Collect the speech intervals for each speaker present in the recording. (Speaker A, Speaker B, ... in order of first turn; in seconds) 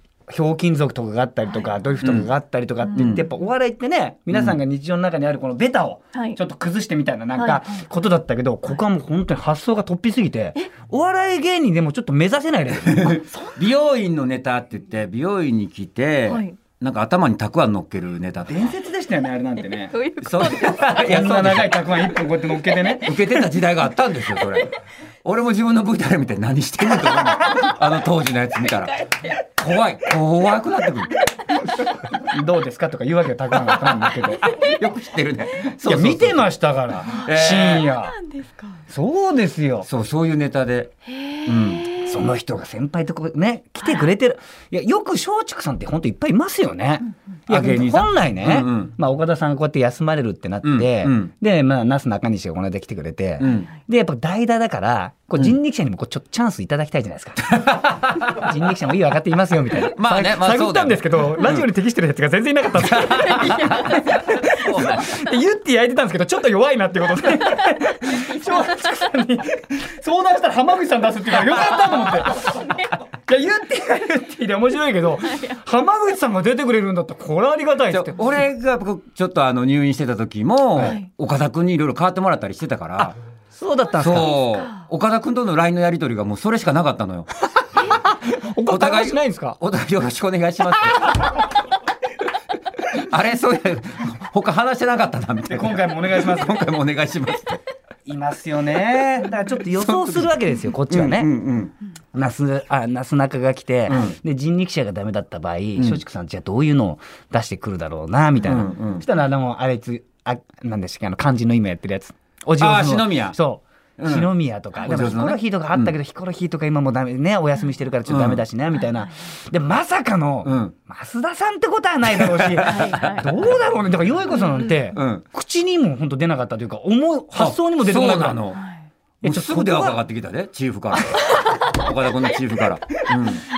Speaker A: 0.3-13.2, 18.5-19.9, 20.9-23.5, 32.1-34.5, 35.8-38.2, 38.9-39.9, 42.0-78.3, 83.5-84.4, 87.8-89.6, 95.5-96.6, 98.0-101.3, 102.1-128.4, 129.2-130.0, 133.0-133.3
Speaker B: 2.0-2.3, 2.9-3.2, 12.8-18.7, 20.2-21.9, 23.0-31.1, 34.4-36.5, 37.0-37.9, 39.8-40.9, 41.4-41.9, 47.5-48.9, 50.6-51.3, 53.4-53.7, 57.7-58.2, 59.9-61.7, 62.7-65.2, 77.9-83.2, 84.0-87.3, 88.7-91.4, 92.8-97.6, 99.8-100.3, 100.9-101.7, 103.9-104.2, 108.4-109.0, 112.6-113.4, 114.0-115.9, 118.1-118.4, 120.4-120.7, 122.1-123.3, 124.9-125.2, 127.3-128.6, 129.2-133.4
Speaker C: 7.3-7.8, 13.3-13.6, 16.3-16.6, 19.7-21.0, 27.2-27.8, 28.6-29.4, 34.5-34.7, 37.1-38.8, 41.1-42.2, 43.8-44.1, 63.3-64.1, 80.8-81.1, 84.1-84.8, 122.6-123.4, 124.4-124.8, 128.5-128.8